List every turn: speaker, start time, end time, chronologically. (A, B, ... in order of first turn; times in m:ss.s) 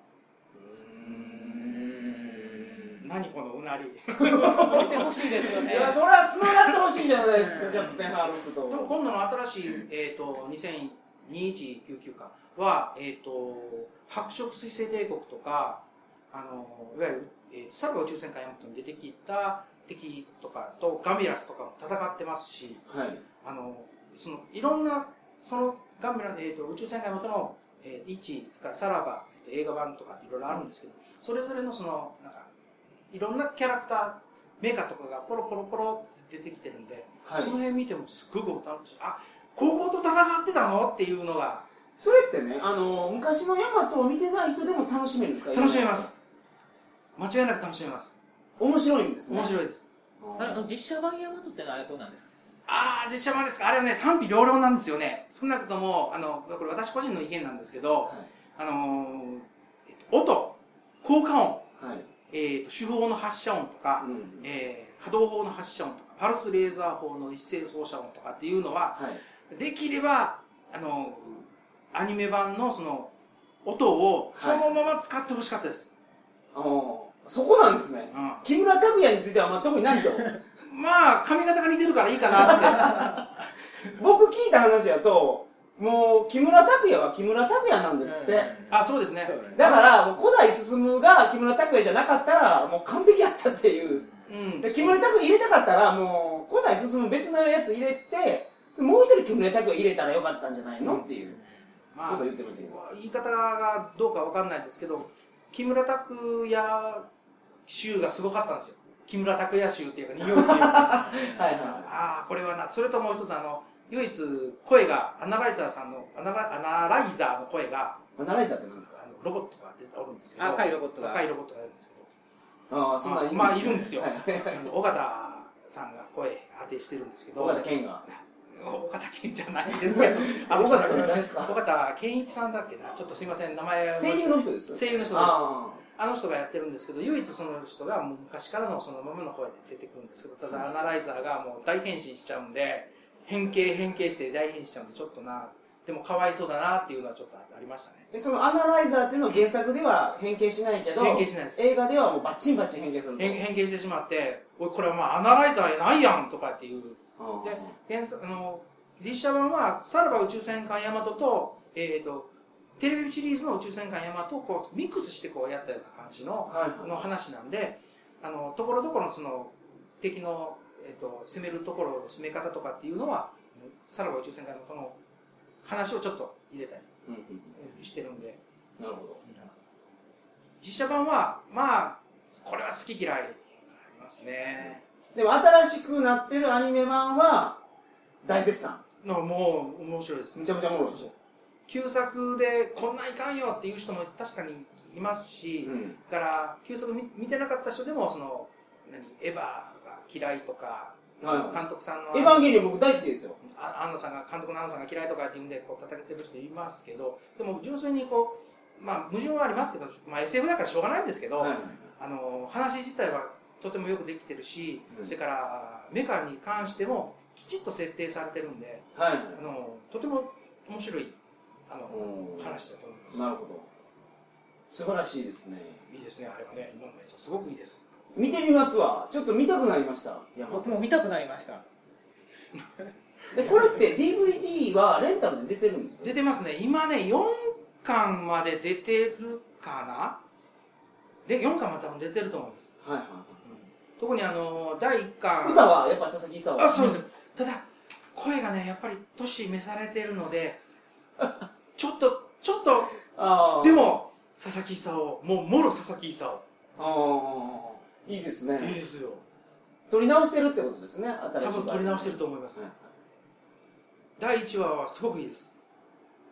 0:00.6-0:03.0 A
0:03.0-0:05.1 B
0:04.2-0:09.0 A
0:04.6-0:06.0 C
0:07.3-0:07.9 C
0:07.7-0:08.1 B
0:08.7-0:22.8 B
0:22.9-0:23.2 A
0:23.4-0:32.5 B
0:33.1-0:41.6 B
0:37.2-0:37.6 A
0:42.0-0:46.1 A
0:45.5-0:46.2 B
0:47.2-0:48.2 B
0:48.6-0:49.5 A
0:49.3-0:49.8 B
0:50.2-0:50.6 A
0:50.4-0:52.3 C
0:52.7-1:01.7 B
1:01.8-1:02.1 A
1:02.3-1:13.1 B
1:04.0-1:04.4 A
1:09.0-1:09.2 A
1:13.6-1:15.9 B
1:14.3-1:14.7 A
1:16.5-1:20.4 A
1:18.1-1:18.4 B
1:20.6-1:23.2 B
1:22.4-1:23.2 A
1:23.9-1:28.5 A
1:28.0-1:29.7 C
1:28.7-1:29.9 B
1:29.5-1:34.0 A
1:34.3-1:35.0 B
1:34.6-1:41.4 A
1:40.8-1:41.1 B
1:41.9-1:47.1 B
1:42.1-1:42.8 A
1:47.7-1:58.0 B
1:50.2-1:51.9 A
1:58.2-1:59.0 A
1:59.0-2:02.1 B
2:00.4-2:01.2 C
2:02.7-2:04.7 A
2:03.0-2:28.1 B
2:07.4-2:08.0 A
2:09.8-2:11.6 A
2:14.0-2:15.8 A
2:28.1-2:33.4 A
2:31.0-2:31.6 B
2:33.2-2:55.0 B
2:37.2-2:37.8 A
2:46.5-2:47.0 A
2:55.6-2:56.9 B
2:57.0-2:57.6 A
2:57.6-2:58.4 B
2:58.8-2:59.2 A
2:59.2-2:59.5 B
3:00.6-3:04.8 B
3:05.1-3:07.6 A
3:08.2-3:08.8 A
3:09.0-3:11.1 B
3:10.3-3:11.1 A
3:11.7-3:22.8 B
3:15.6-3:16.0 A
3:21.2-3:23.4 A
3:23.4-3:41.2 B
3:31.4-3:31.9 A
3:38.9-3:39.4 A
3:41.7-3:43.2 B
3:41.9-3:43.7 A
3:44.7-3:45.8 A
3:45.9-3:47.8 B
3:48.1-3:50.8 A
3:50.5-3:51.6 C
3:53.3-3:56.1 A
3:56.0-4:00.2 B
4:01.2-4:02.7 B
4:02.8-4:03.4 A
4:03.4-4:05.8 B
4:05.4-4:07.0 A
4:06.6-4:10.6 B
4:11.2-4:11.4 A
4:11.8-4:13.0 B
4:13.1-4:13.9 A
4:13.6-4:16.4 B
4:16.8-4:18.8 A
4:18.6-4:19.2 B
4:19.9-4:22.9 A
4:21.4-4:22.6 B
4:24.2-4:25.5 B